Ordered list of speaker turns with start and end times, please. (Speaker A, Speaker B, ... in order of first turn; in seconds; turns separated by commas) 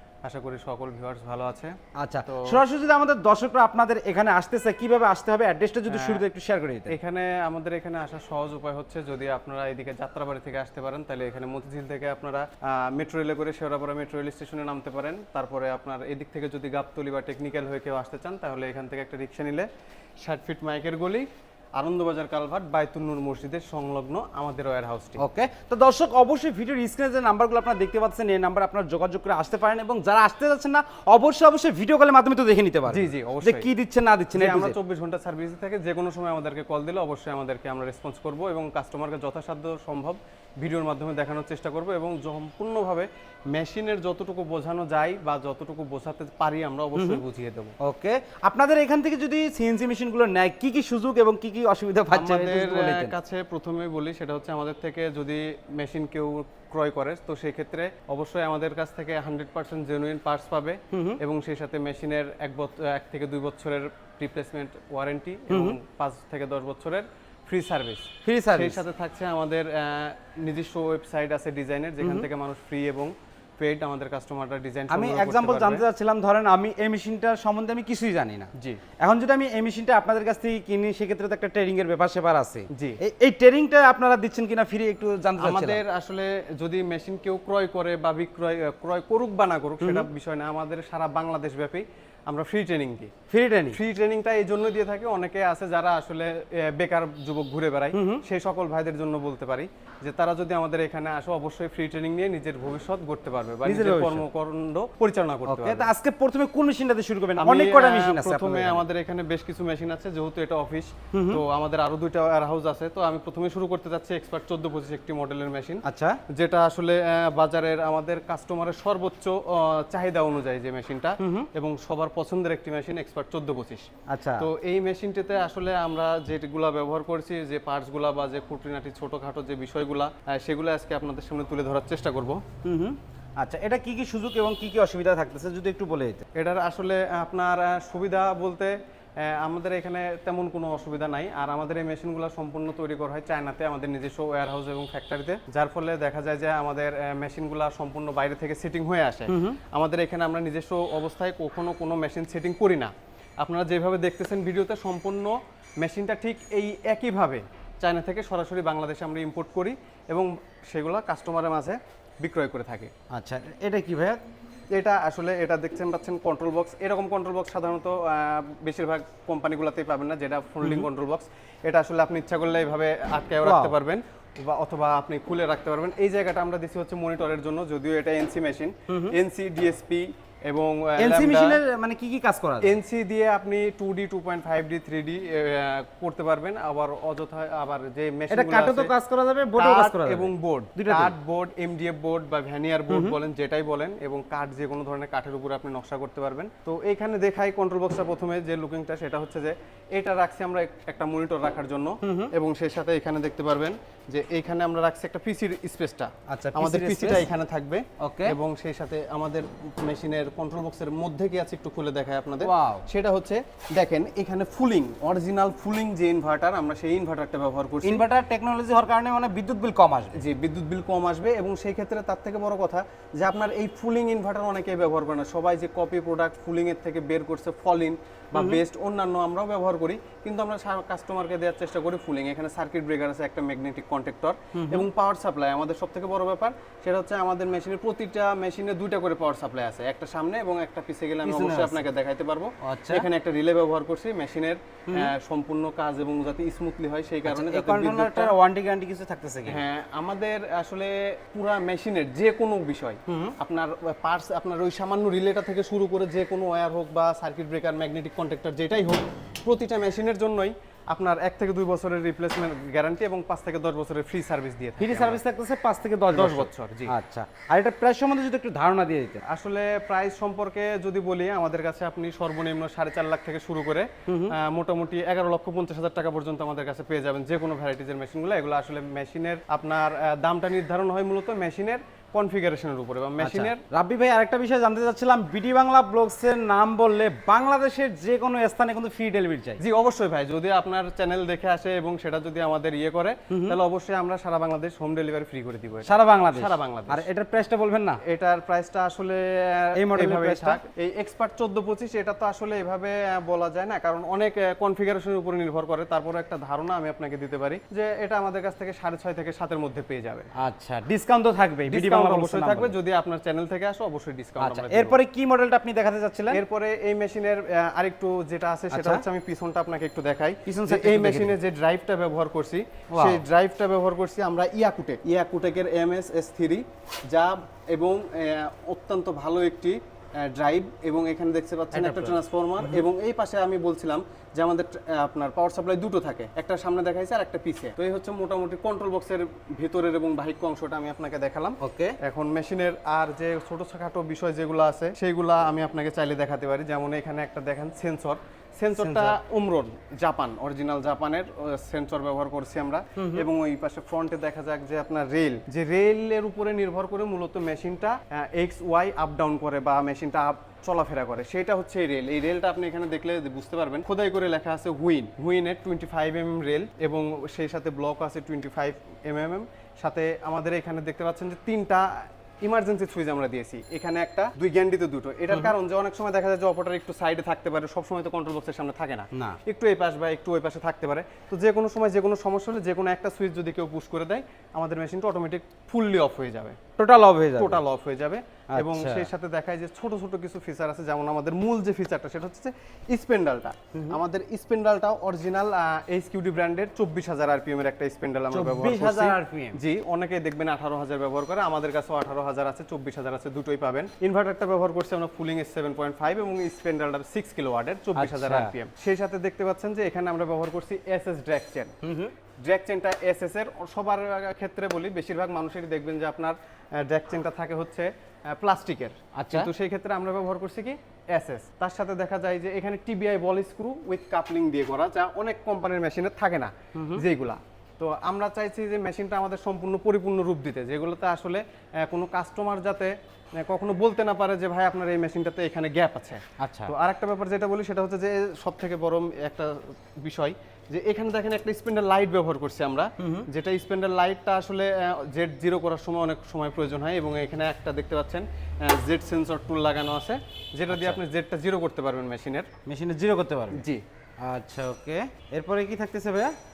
Speaker A: 0.2-2.6, Speaker B: 2.0-6.9, Speaker A: 5.9-6.2, Speaker A: 6.9-19.7, Speaker A: 20.2-25.2, Speaker B: 25.2-34.8, Speaker A: 32.9-33.7, Speaker A: 34.3-47.7, Speaker B: 47.0-47.2, Speaker B: 47.8-53.1, Speaker A: 52.1-75.8, Speaker B: 60.9-61.2, Speaker B: 65.5-65.8, Speaker B: 68.2-68.8, Speaker B: 72.0-72.3, Speaker B: 74.9-85.8, Speaker A: 78.5-78.8, Speaker A: 82.7-83.0, Speaker A: 85.4-93.1, Speaker B: 89.8-90.1, Speaker B: 93.3-93.8, Speaker A: 93.7-105.9, Speaker B: 97.9-98.2, Speaker B: 103.6-104.2, Speaker B: 105.5-108.8, Speaker A: 107.4-123.9, Speaker B: 111.1-111.4, Speaker B: 115.8-116.2, Speaker B: 121.2-121.5, Speaker B: 124.1-124.4, Speaker A: 124.4-132.4, Speaker B: 132.6-136.2, Speaker A: 136.3-162.9, Speaker B: 149.3-149.6, Speaker B: 163.1-164.2, Speaker A: 164.7-181.6, Speaker B: 170.6-170.9, Speaker B: 173.4-173.7, Speaker B: 178.9-179.2, Speaker B: 181.0-182.8, Speaker A: 182.6-188.9, Speaker B: 188.3-191.1, Speaker A: 189.6-218.0, Speaker B: 192.9-193.2, Speaker B: 202.0-202.3, Speaker B: 206.3-207.2, Speaker B: 208.0-208.3, Speaker B: 212.4-212.8, Speaker B: 217.8-220.2, Speaker A: 220.1-248.3, Speaker B: 228.3-228.6, Speaker B: 234.6-234.9, Speaker B: 241.2-241.8, Speaker B: 242.6-243.1, Speaker B: 247.2-249.6, Speaker A: 249.5-265.2, Speaker B: 253.1-253.3, Speaker B: 264.8-269.2, Speaker A: 266.1-266.9, Speaker A: 269.3-283.6, Speaker B: 274.1-274.3, Speaker B: 283.2-289.6, Speaker A: 289.6-297.0, Speaker B: 293.3-293.6, Speaker B: 295.8-298.0, Speaker A: 298.0-310.3, Speaker B: 299.8-300.6, Speaker B: 310.4-312.8, Speaker A: 311.7-315.0, Speaker B: 314.4-316.4, Speaker A: 316.3-386.6, Speaker B: 318.7-319.0, Speaker B: 320.4-321.4, Speaker B: 322.9-323.2, Speaker B: 331.7-332.9, Speaker B: 341.6-341.9, Speaker B: 348.8-349.2, Speaker B: 353.0-353.2, Speaker B: 379.1-379.4, Speaker B: 386.8-387.6, Speaker A: 387.4-411.7, Speaker B: 388.5-389.1, Speaker B: 398.3-399.6, Speaker B: 407.9-408.5, Speaker B: 411.8-412.1, Speaker A: 412.4-452.5, Speaker B: 419.2-419.5, Speaker B: 426.7-427.0, Speaker B: 436.4-436.7, Speaker B: 443.0-443.2, Speaker B: 450.7-451.0, Speaker B: 452.6-453.6, Speaker A: 453.5-453.8, Speaker B: 454.2-456.3